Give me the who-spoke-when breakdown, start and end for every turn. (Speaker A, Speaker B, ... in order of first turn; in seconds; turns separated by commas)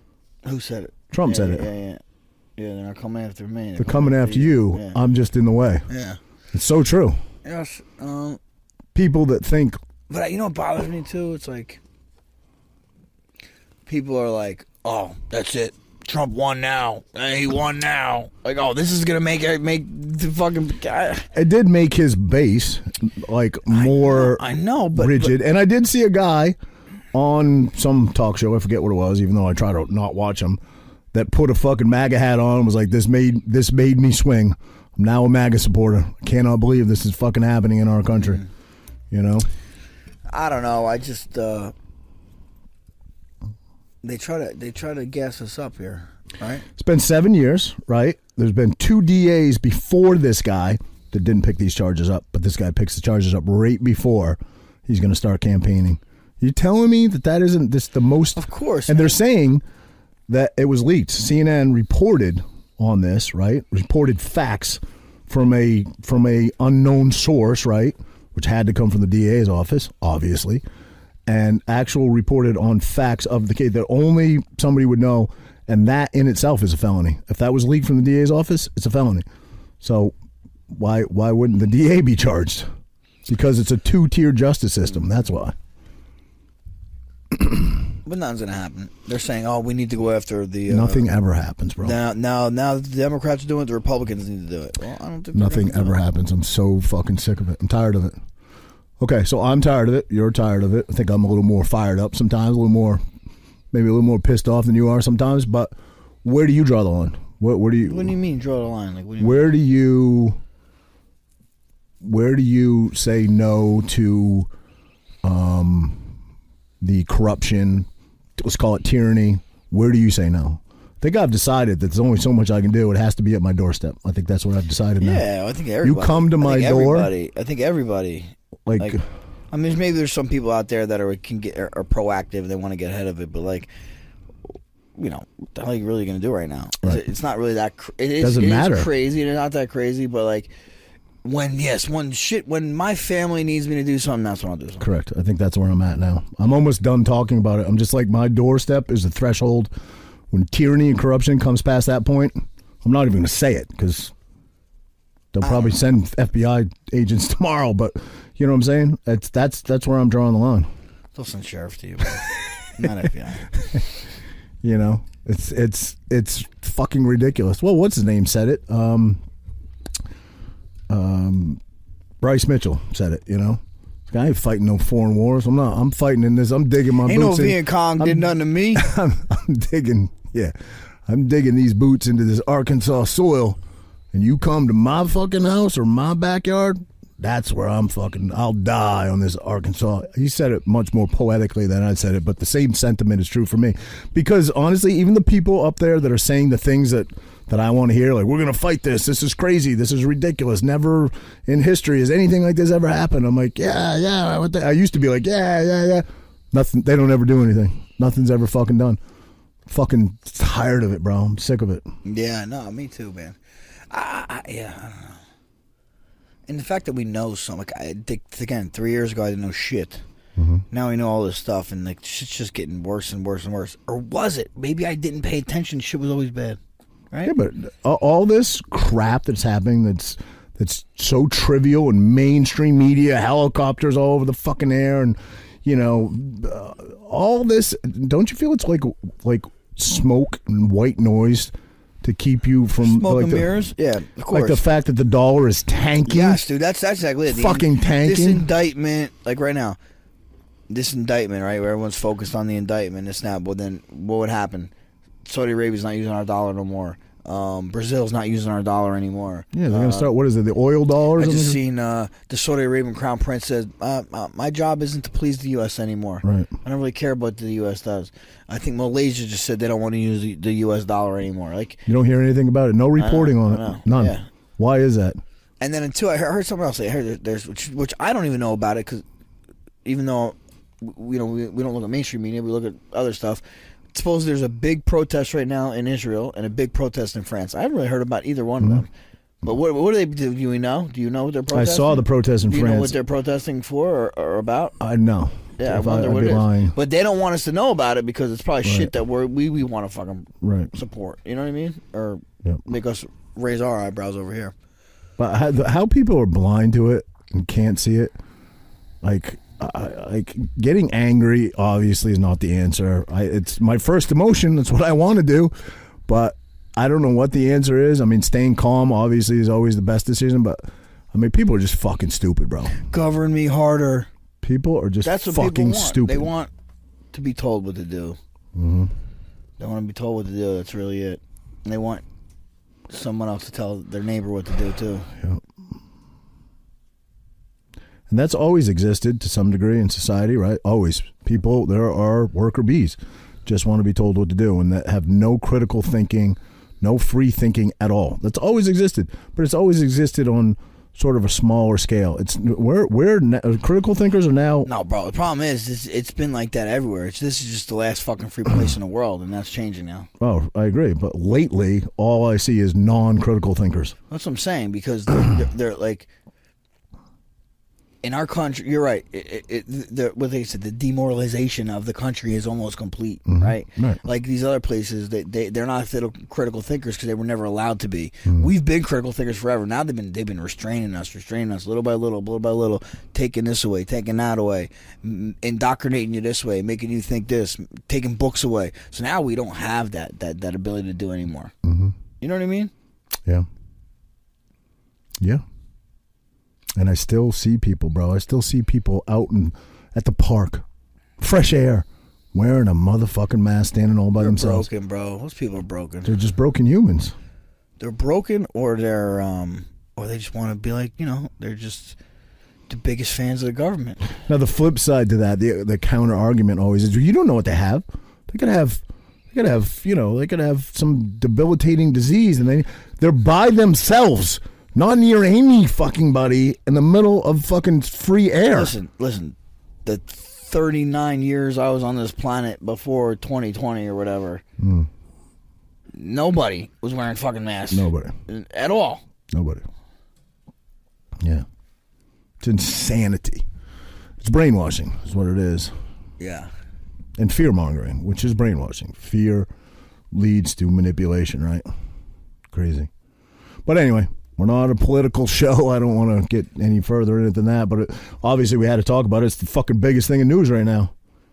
Speaker A: 0.4-2.0, Speaker B: 1.1-1.7, Speaker A: 2.6-5.0, Speaker B: 3.8-5.8, Speaker A: 5.9-6.2, Speaker B: 6.5-7.2, Speaker A: 7.4-8.4, Speaker B: 8.9-9.8, Speaker A: 10.1-11.8, Speaker A: 13.8-21.3, Speaker B: 21.3-26.6, Speaker A: 23.7-25.4, Speaker B: 27.1-30.6, Speaker B: 31.1-38.4, Speaker B: 39.1-39.5, Speaker A: 40.3-41.7, Speaker A: 44.0-46.6, Speaker B: 46.8-59.6, Speaker A: 58.4-59.2, Speaker B: 60.3-70.6, Speaker B: 71.2-79.2, Speaker B: 79.8-80.1, Speaker B: 80.7-82.7, Speaker B: 83.2-85.5, Speaker B: 87.3-87.7, Speaker A: 88.0-91.1, Speaker B: 90.7-92.0, Speaker A: 91.8-96.0, Speaker B: 95.3-98.2, Speaker B: 99.0-103.0, Speaker B: 103.7-105.7, Speaker B: 106.2-108.1, Speaker A: 107.8-109.5, Speaker B: 109.2-110.4, Speaker B: 112.0-114.5, Speaker B: 115.2-116.1, Speaker B: 116.8-125.2, Speaker A: 125.0-129.0, Speaker B: 125.8-127.1, Speaker B: 128.7-129.0, Speaker A: 129.5-133.7, Speaker A: 134.9-140.5, Speaker B: 138.2-138.9, Speaker A: 141.2-144.8, Speaker B: 144.8-149.7, Speaker B: 150.3-154.1, Speaker B: 155.3-160.7, Speaker A: 155.4-155.7, Speaker A: 161.1-163.6, Speaker B: 164.6-169.2, Speaker B: 170.9-171.6, Speaker B: 172.2-180.5, Speaker A: 177.0-178.9, Speaker B: 181.1-183.6, Speaker B: 184.1-209.0, Speaker B: 209.7-211.8, Speaker A: 212.0-213.4, Speaker A: 213.9-215.2, Speaker A: 216.5-220.0, Speaker B: 220.4-220.6, Speaker A: 220.7-226.6, Speaker B: 227.2-243.5, Speaker A: 242.8-244.6, Speaker B: 244.3-246.4, Speaker A: 246.1-249.8, Speaker B: 247.3-248.5, Speaker A: 250.7-254.7, Speaker A: 255.2-260.1, Speaker B: 259.5-261.6, Speaker A: 261.2-271.8, Speaker B: 266.2-266.5, Speaker B: 271.9-275.2, Speaker A: 273.0-274.3, Speaker A: 275.6-279.0, Speaker A: 279.8-288.9, Speaker A: 289.4-294.8, Speaker B: 291.5-293.0, Speaker B: 294.8-296.7, Speaker A: 295.6-304.5, Speaker B: 298.6-298.9, Speaker B: 300.4-300.7, Speaker B: 305.2-308.1, Speaker B: 309.0-315.5, Speaker B: 316.1-322.8, Speaker A: 322.8-324.1, Speaker B: 324.4-326.3, Speaker A: 325.0-326.5, Speaker A: 327.1-328.2, Speaker B: 328.5-328.9, Speaker A: 329.6-332.0, Speaker A: 332.9-335.1, Speaker B: 335.1-335.4, Speaker B: 338.1-354.7, Speaker A: 354.6-360.1, Speaker B: 360.2-363.9, Speaker A: 364.1-366.1, Speaker A: 368.0-391.5, Speaker B: 373.3-374.0, Speaker B: 391.6-391.9, Speaker A: 392.2-392.7, Speaker B: 396.8-400.6, Speaker B: 401.2-404.7, Speaker A: 404.2-406.1, Speaker B: 406.0-407.1, Speaker A: 407.8-412.0, Speaker A: 412.7-414.1, Speaker B: 414.3-418.8, Speaker B: 419.3-428.7, Speaker A: 428.5-434.4, Speaker B: 434.6-434.9, Speaker A: 435.9-439.0, Speaker B: 437.7-438.1, Speaker B: 439.3-439.6, Speaker B: 441.2-441.4, Speaker B: 442.4-443.4, Speaker B: 444.2-445.7, Speaker A: 446.2-446.5, Speaker B: 447.2-449.5, Speaker B: 450.1-451.6, Speaker B: 452.5-452.9, Speaker B: 453.6-460.9